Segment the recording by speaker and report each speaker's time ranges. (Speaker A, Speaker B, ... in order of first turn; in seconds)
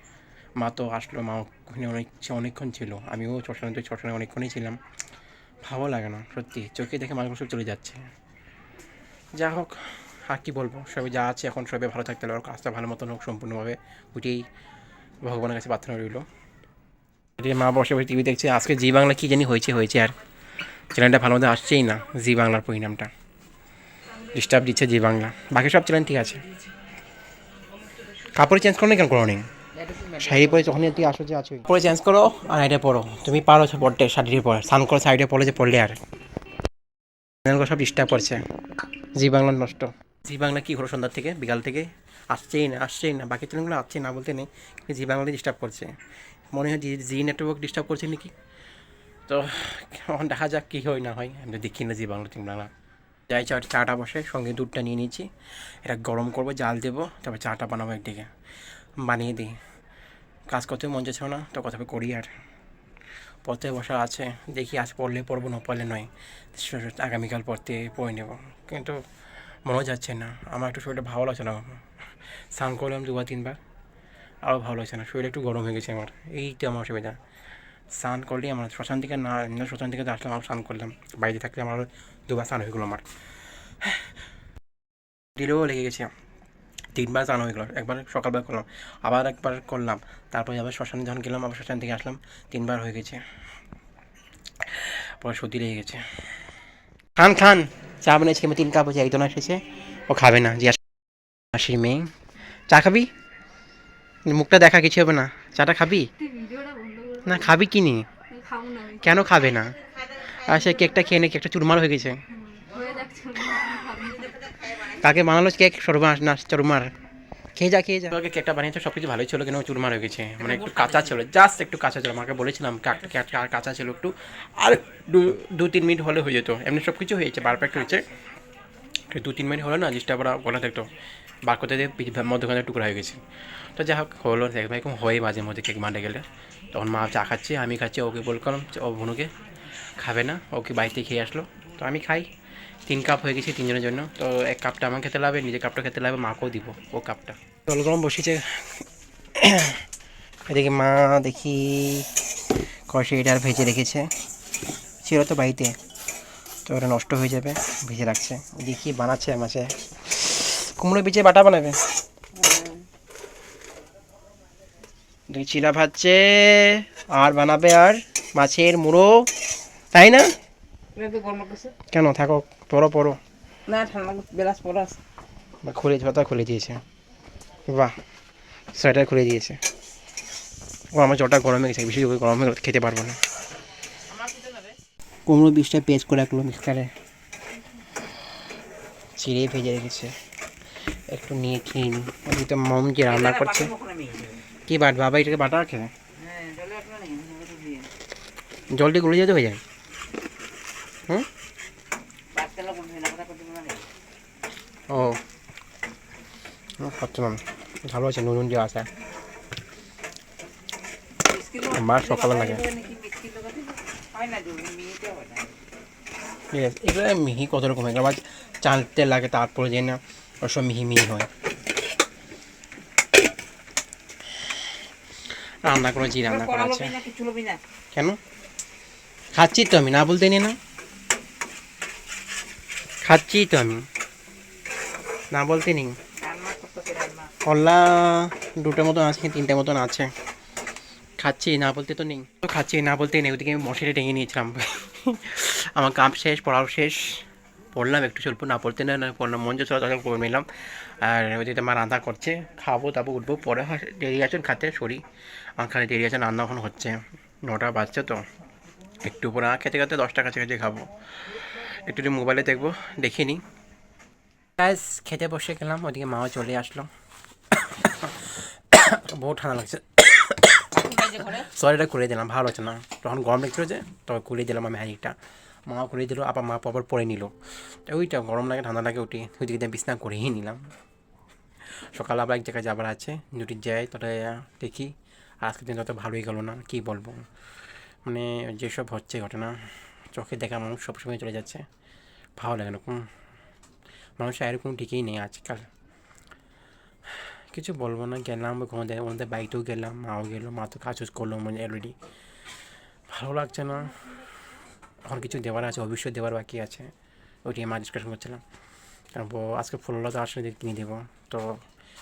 Speaker A: 0.6-4.8, 5.6-8.0, 9.3-14.4, 15.2-16.2, 17.4-20.1, 20.9-23.1, 24.3-26.4, 28.2-29.5, 30.0-36.0, 37.4-38.4, 39.1-45.9, 46.5-48.3, 49.3-52.7, 53.3-55.3, 55.8-58.3, 59.0-59.5, 60.5-62.3, 63.4-69.0, 69.7-71.8, 72.5-73.6, 74.4-77.2, 78.0-83.1, 83.8-84.1, 85.3-86.1, 86.9-93.2, 94.6-96.0, 97.2-100.8, 101.5-102.1, 102.7-103.1, 104.2-106.1, 107.2-108.1, 108.9-112.2, 114.6-116.9, 117.5-128.0, 129.1-130.9, 131.4-139.3, 140.0-142.3, 142.9-149.8, 150.4-152.1, 152.9-154.1, 155.0-155.7, 156.7-161.8, 165.3-169.3, 169.9-170.3, 171.9-173.2, 175.6-176.8, 177.7-177.9, 178.7-179.6, 180.9-183.2, 185.3-186.9, 189.2-190.1, 191.1-193.7, 194.7-195.9, 198.7-199.6, 204.9-205.2, 206.8-208.9, 211.7-212.6, 216.5-221.3, 225.3-227.0, 227.9-228.2, 229.3-230.6, 233.0-233.8, 235.3-235.9, 237.4-240.1, 241.2-255.0, 255.6-258.2, 259.0-260.9, 261.6-263.4, 264.6-266.9, 267.6-275.1, 275.7-280.6, 281.9-284.9, 285.4-287.2, 288.0-289.5, 290.1-291.6, 292.4-293.0, 294.2-295.7, 297.1-301.9, 303.1-304.0, 305.1-306.9, 307.4-308.4, 309.1-311.6
Speaker B: 29.9-30.2, 120.5-120.9, 162.3-162.8, 170.9-171.7, 173.7-175.0, 193.1-194.4, 196.2-197.9, 202.3-203.9, 211.2-215.5, 226.2-227.6, 236.2-237.3, 270.8-271.4
Speaker C: 106.3-107.2, 108.4-108.9, 112.6-114.3